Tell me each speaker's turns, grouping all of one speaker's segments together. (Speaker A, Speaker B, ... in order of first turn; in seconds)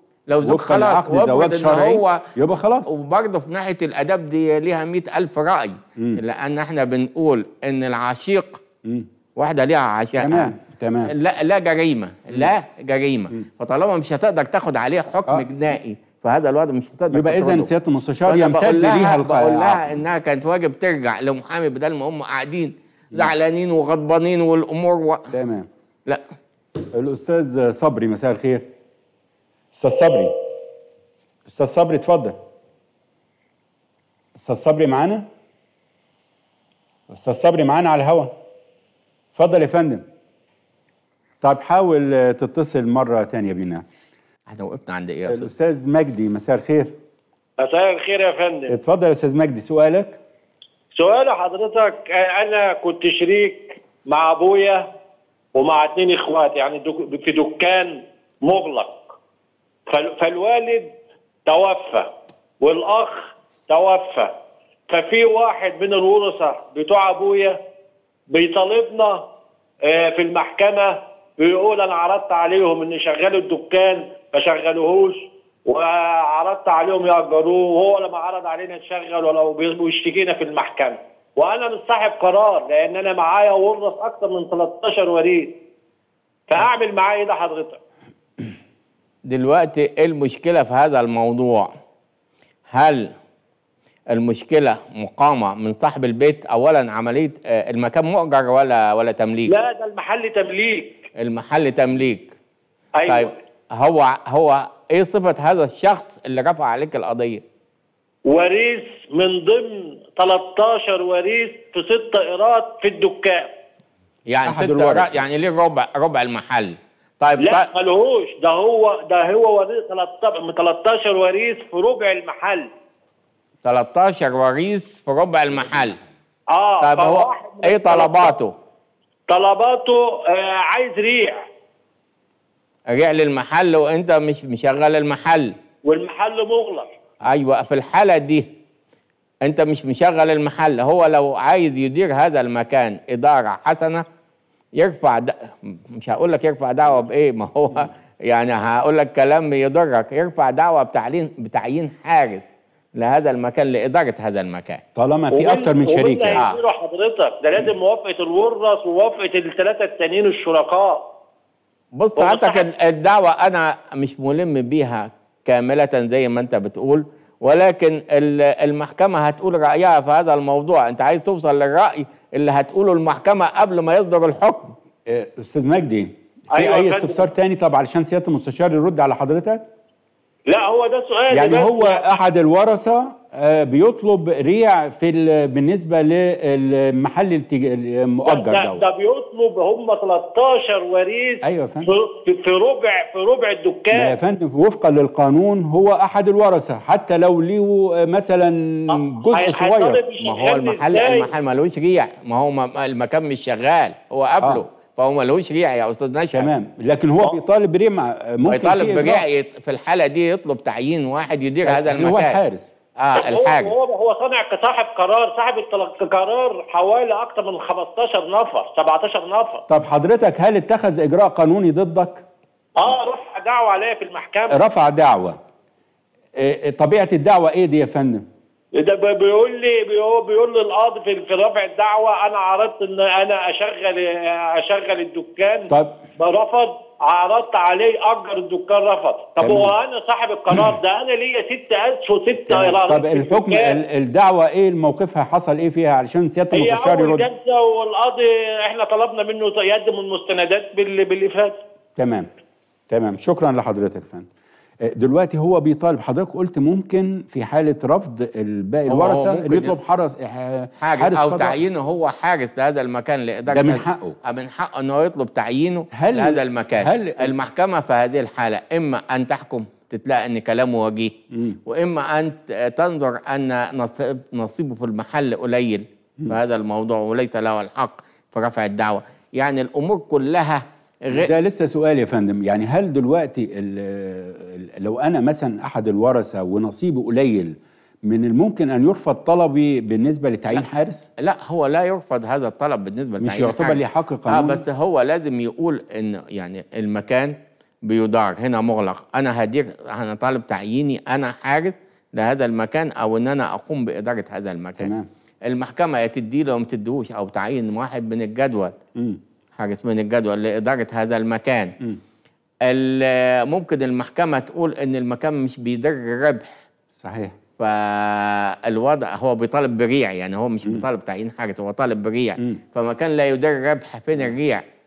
Speaker A: 0.3-2.2, 2.9-8.6, 9.4-10.5, 11.1-17.7, 18.3-25.2, 44.5-45.5, 89.3-91.7, 92.7-93.1, 94.1-99.5, 101.2-102.3, 103.1-107.4, 114.3-117.7, 123.6-126.0, 126.8-128.5, 132.9-135.5, 137.2-138.5, 139.4-144.0, 144.8-152.4, 152.9-154.8, 161.9-174.7, 200.2-206.5, 208.4-212.4, 213.0-213.8, 258.9-259.8, 260.8-271.1, 271.6-281.3, 291.2-304.9, 305.5-308.8, 309.6-311.8, 312.6-316.4, 317.6-324.6
Speaker B: 0.4-2.9, 10.2-11.1, 17.1-20.0, 25.3-25.7, 26.9-28.7, 29.8-30.3, 31.4-32.4, 34.4-35.3, 37.1-38.3, 39.3-40.0, 41.4-43.8, 45.3-47.0, 48.7-50.2, 114.4-115.2, 154.9-156.4, 175.1-179.7, 181.3-188.8, 191.4-191.9, 193.9-200.0, 206.3-209.2, 211.6-212.7, 219.7-222.2, 224.5-225.4, 226.4-228.3, 235.7-236.0, 239.4-239.8, 242.5-247.3, 252.0-252.3, 252.9-254.3, 254.8-261.6, 263.5-264.1, 265.9-267.4, 271.3-271.6, 281.1-291.1, 293.2-294.6, 304.8-305.1, 308.9-309.2, 317.0-317.3
Speaker C: 47.6-48.7, 51.0-54.9, 55.5-59.0, 59.9-60.9, 61.5-62.1, 62.6-64.3, 64.9-67.6, 68.3-69.2, 69.8-85.5, 86.5-87.8, 99.5-101.0, 103.0-103.3, 108.3-113.5, 117.4-122.7, 126.5-128.3, 129.3-131.4, 135.8-136.9, 155.3-161.0, 162.2-162.6, 176.5-177.2, 180.5-182.0, 188.2-194.2, 198.9-201.3, 213.2-219.6, 222.8-224.6, 228.8-243.8, 246.5-251.6